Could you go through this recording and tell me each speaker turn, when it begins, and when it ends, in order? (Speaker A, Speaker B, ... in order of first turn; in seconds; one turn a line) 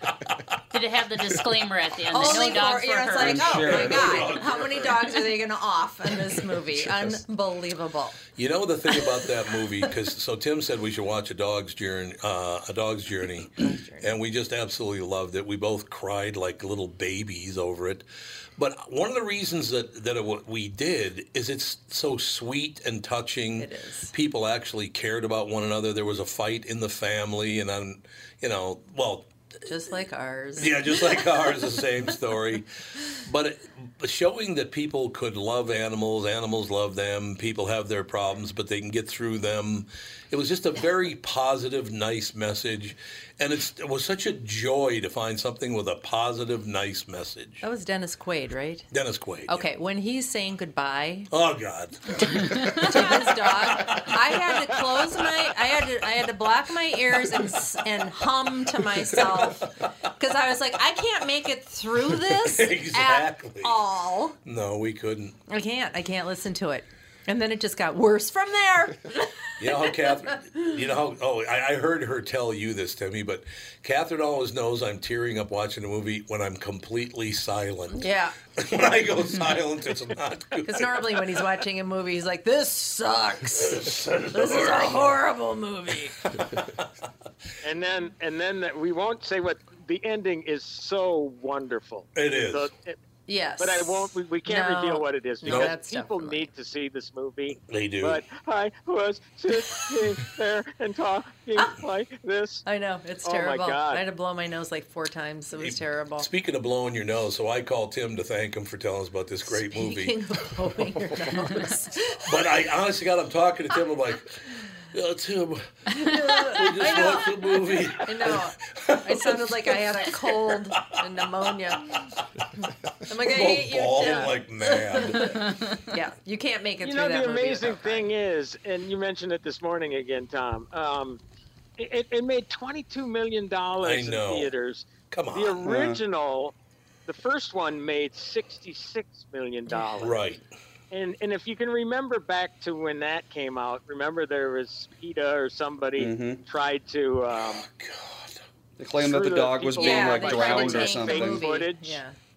Speaker A: 0.7-3.8
Speaker B: 2.1-8.2
Speaker C: 3.1-4.4
Speaker D: 3.4-5.0
Speaker D: 8.4-18.0
Speaker B: 13.6-14.1
Speaker D: 18.6-29.3
Speaker B: 23.6-24.1
Speaker B: 29.7-31.0
Speaker D: 30.6-32.7
Speaker D: 33.2-47.6
Speaker B: 47.6-48.9
Speaker D: 48.9-49.6
Speaker B: 49.5-51.3
Speaker D: 51.3-54.8
Speaker B: 52.7-64.4
Speaker D: 59.2-59.6
Speaker D: 62.3-63.8
Speaker D: 64.5-65.4
Speaker B: 65.5-69.3
Speaker D: 69.6-81.3
Speaker B: 78.0-78.3
Speaker B: 80.7-86.2
Speaker D: 83.6-85.2
Speaker E: 87.6-93.0
Speaker D: 92.2-92.7
Speaker B: 93.3-96.5
Speaker E: 93.6-102.6
Speaker D: 95.4-95.7
Speaker D: 97.7-98.2
Speaker B: 102.7-106.3
Speaker E: 103.2-104.0
Speaker D: 105.6-110.2
Speaker B: 109.5-112.3
Speaker D: 112.3-114.4
Speaker D: 114.9-119.8
Speaker B: 115.9-121.9
Speaker D: 120.5-121.0
Speaker B: 122.6-128.1
Speaker D: 123.2-125.3
Speaker A: 125.3-125.8
Speaker E: 126.8-131.2
Speaker E: 131.8-136.6
Speaker D: 133.8-134.5
Speaker D: 135.1-135.7
Speaker C: 135.7-136.0
Speaker E: 137.1-140.2
Speaker D: 140.0-140.4
Speaker E: 140.9-147.7
Speaker C: 146.0-146.4
Speaker D: 147.5-148.4
Speaker C: 148.8-151.4
Speaker E: 148.9-152.0
Speaker B: 149.8-152.2